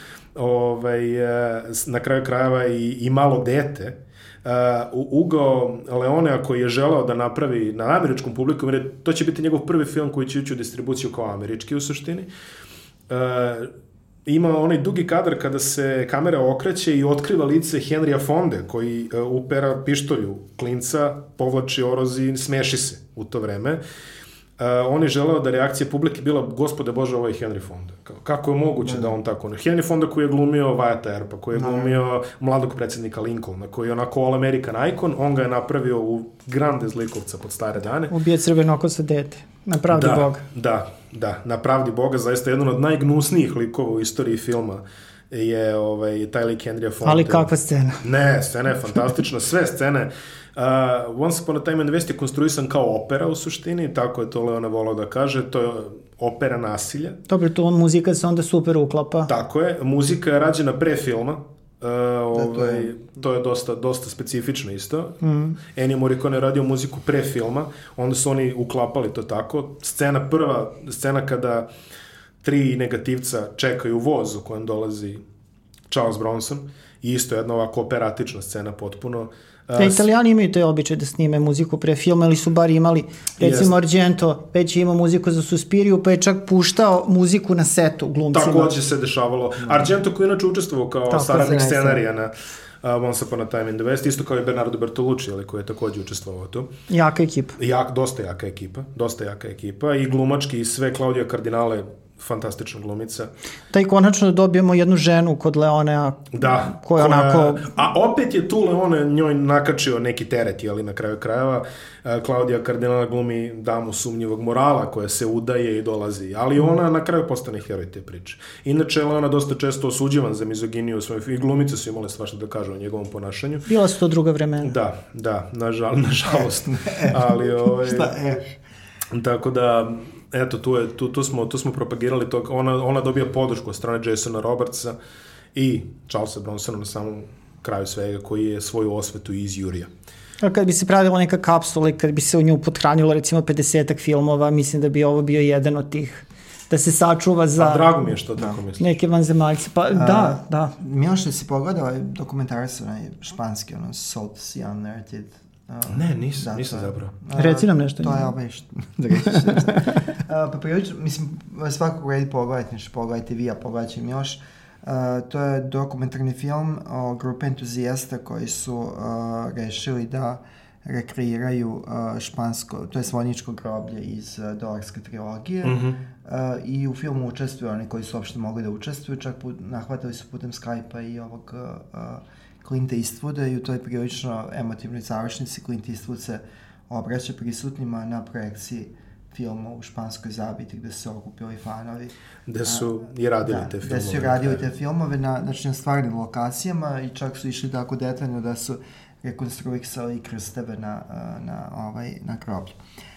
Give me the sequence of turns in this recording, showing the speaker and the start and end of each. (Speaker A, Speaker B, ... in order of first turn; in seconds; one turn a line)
Speaker A: 0.3-12.3
Speaker A: 13.1-13.7
Speaker A: 14.2-23.8
Speaker A: 24.6-38.1
Speaker B: 28.8-29.1
Speaker B: 31.5-31.9
Speaker C: 38.1-40.4
Speaker A: 39.9-57.2
Speaker C: 47.0-48.0
Speaker C: 57.3-59.3
Speaker A: 59.2-65.2
Speaker B: 62.3-62.9
Speaker C: 65.2-65.6
Speaker A: 65.7-71.7
Speaker A: 72.4-75.2
Speaker A: 75.9-80.1
Speaker C: 79.8-88.7
Speaker A: 83.4-83.7
Speaker A: 88.3-96.7
Speaker B: 89.6-89.9
Speaker C: 91.1-91.4
Speaker B: 91.2-92.0
Speaker C: 96.9-97.5
Speaker A: 97.6-103.3
Speaker C: 103.7-107.7
Speaker A: 106.3-123.7
Speaker C: 123.7-124.7
Speaker A: 124.6-128.1
Speaker B: 126.2-128.5
Speaker A: 129.1-134.9
Speaker A: 135.5-139.9
Speaker C: 140.4-148.0
Speaker A: 147.6-148.9
Speaker C: 148.8-150.7
Speaker B: 149.9-192.1
Speaker A: 155.9-157.1
Speaker C: 157.3-158.3
Speaker A: 175.6-176.0
Speaker A: 192.5-194.6
Speaker B: 193.4-202.8